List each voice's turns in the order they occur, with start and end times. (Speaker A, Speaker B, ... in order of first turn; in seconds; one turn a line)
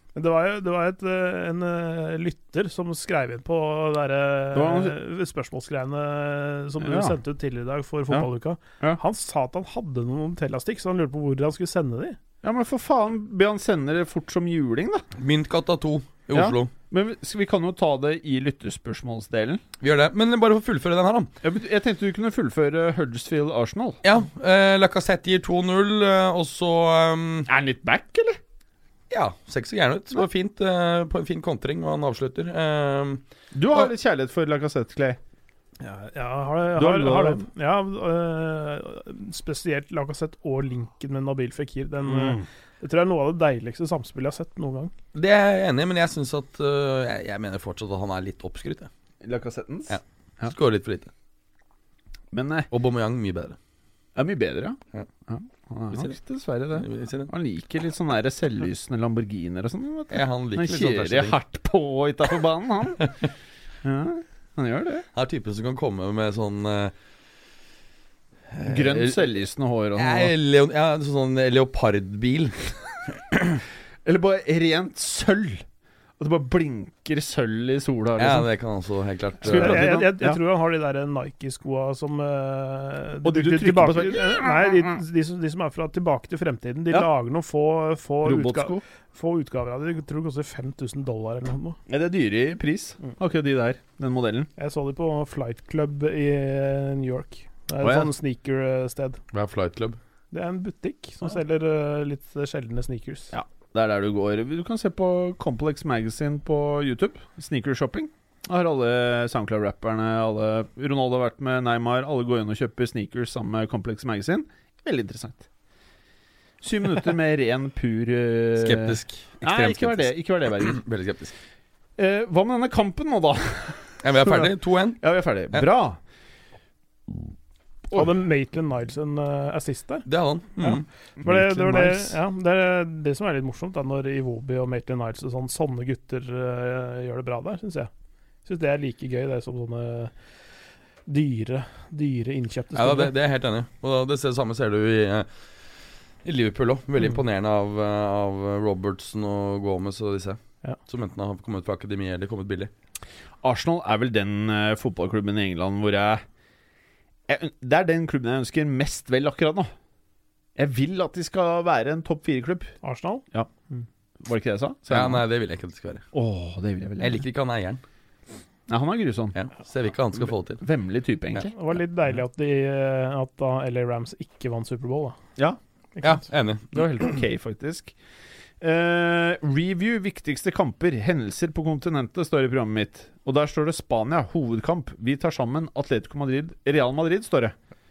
Speaker A: 0.1-12.2
Speaker B: 4.5-5.0
Speaker B: 6.8-7.1
Speaker B: 12.4-15.1
Speaker C: 15.2-16.7
Speaker B: 16.3-19.6
Speaker C: 19.8-21.3
Speaker B: 21.4-24.0
Speaker C: 24.0-27.5
Speaker B: 27.5-28.4
Speaker C: 29.1-33.2
Speaker B: 33.5-35.2
Speaker A: 35.8-44.9
Speaker B: 36.7-37.4
Speaker B: 42.0-42.5
Speaker C: 45.1-48.9
Speaker B: 49.2-50.5
Speaker C: 49.9-51.1
Speaker B: 52.3-52.7
Speaker C: 52.7-53.5
Speaker B: 54.1-63.1
Speaker C: 56.7-57.3
Speaker C: 60.1-61.4
Speaker B: 63.8-65.0
Speaker C: 65.1-66.9
Speaker C: 68.5-69.2
Speaker B: 68.6-70.3
Speaker C: 70.0-73.5
Speaker B: 74.0-75.6
Speaker B: 76.2-78.5
Speaker C: 78.2-79.9
Speaker B: 79.4-80.4
Speaker A: 79.4-91.8
Speaker B: 83.2-85.0
Speaker B: 88.2-88.8
Speaker B: 91.9-94.5
Speaker A: 94.6-99.2
Speaker B: 97.8-98.1
Speaker C: 99.3-100.0
Speaker A: 100.3-103.3
Speaker B: 103.3-115.5
Speaker B: 116.6-120.8
Speaker C: 118.6-121.3
Speaker B: 122.0-126.0
Speaker C: 124.0-125.7
Speaker A: 127.9-137.9
Speaker C: 130.1-130.9
Speaker B: 131.2-132.2
Speaker A: 138.4-140.1
Speaker A: 141.1-143.1
Speaker C: 142.7-145.3
Speaker C: 146.2-152.7
Speaker B: 153.4-156.2
Speaker B: 157.3-159.7
Speaker B: 160.6-162.8
Speaker A: 162.8-163.9
Speaker B: 164.2-165.2
Speaker C: 164.9-166.0
Speaker B: 166.1-167.2
Speaker C: 167.0-167.8
Speaker B: 168.7-169.3
Speaker C: 169.3-170.6
Speaker B: 170.2-171.5
Speaker A: 171.5-175.2
Speaker C: 176.0-177.2
Speaker B: 176.7-177.9
Speaker B: 178.6-187.6